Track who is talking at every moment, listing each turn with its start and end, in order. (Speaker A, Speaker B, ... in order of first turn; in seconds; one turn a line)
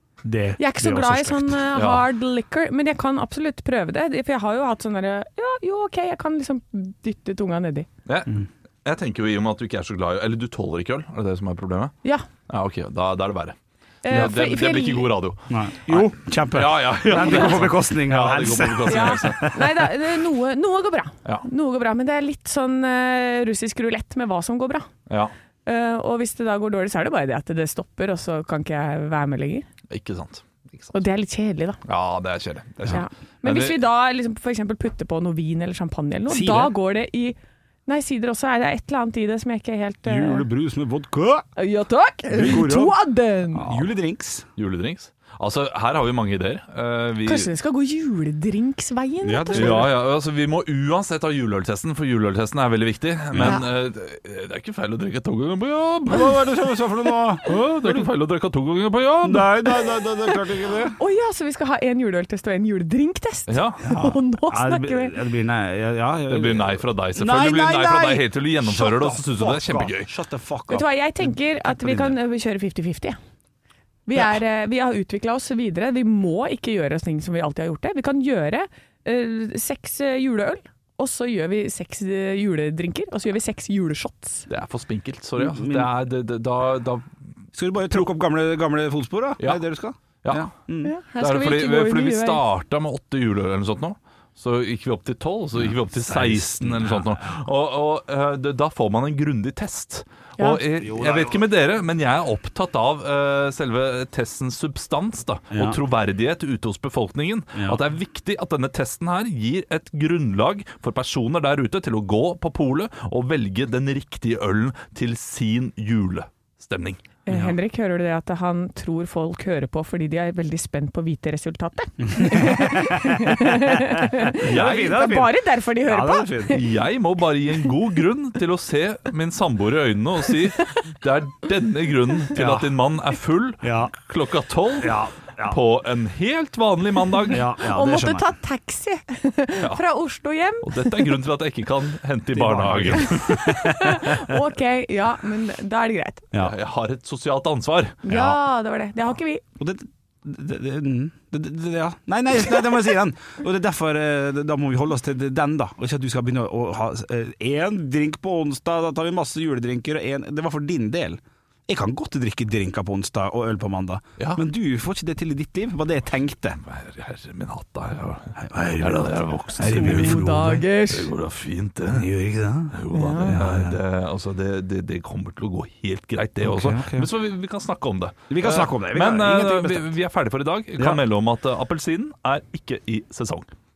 Speaker A: 0.2-1.6
Speaker B: 0.6-7.9
Speaker C: 1.7-2.0
Speaker C: 8.1-11.9
Speaker C: 12.5-19.6
Speaker B: 14.0-15.1
Speaker A: 15.5-19.6
Speaker B: 18.9-24.9
Speaker C: 25.1-25.3
Speaker B: 25.6-29.6
Speaker C: 29.9-30.4
Speaker B: 30.9-31.8
Speaker C: 31.9-33.8
Speaker B: 32.9-40.5
Speaker A: 36.3-36.7
Speaker A: 40.0-41.5
Speaker B: 41.6-43.7
Speaker A: 42.3-43.0
Speaker A: 43.5-44.5
Speaker C: 44.6-47.5
Speaker B: 47.2-49.9
Speaker A: 49.2-49.9
Speaker C: 49.5-56.4
Speaker A: 53.3-53.6
Speaker A: 56.1-58.1
Speaker C: 57.4-59.6
Speaker A: 59.2-61.0
Speaker B: 61.0-65.2
Speaker C: 63.5-63.9
Speaker A: 63.8-72.2
Speaker C: 66.3-70.1
Speaker B: 70.7-73.2
Speaker B: 74.0-84.5
Speaker C: 84.5-87.1
Speaker A: 85.4-85.9
Speaker A: 87.5-90.9
Speaker C: 89.4-89.6
Speaker C: 90.2-90.5
Speaker B: 90.8-92.4
Speaker C: 91.2-117.0
Speaker A: 95.6-97.2
Speaker A: 100.8-101.4
Speaker A: 105.5-105.8
Speaker A: 107.5-107.8
Speaker B: 117.3-126.7
Speaker A: 122.1-126.6
Speaker C: 124.4-125.1
Speaker C: 126.5-137.4
Speaker A: 132.3-132.7
Speaker A: 133.6-133.9
Speaker A: 134.8-135.6
Speaker A: 137.3-138.3
Speaker B: 137.6-141.1
Speaker C: 140.6-143.2
Speaker A: 142.3-144.3
Speaker B: 142.9-146.2
Speaker C: 146.4-148.0
Speaker B: 148.0-149.4
Speaker A: 148.1-148.4
Speaker A: 149.6-166.6
Speaker C: 164.2-164.4
Speaker C: 166.6-172.1
Speaker A: 168.4-170.6
Speaker B: 169.6-171.1
Speaker A: 171.9-173.8
Speaker C: 172.7-183.5
Speaker B: 172.9-173.4
Speaker A: 176.4-177.1
Speaker A: 178.3-179.9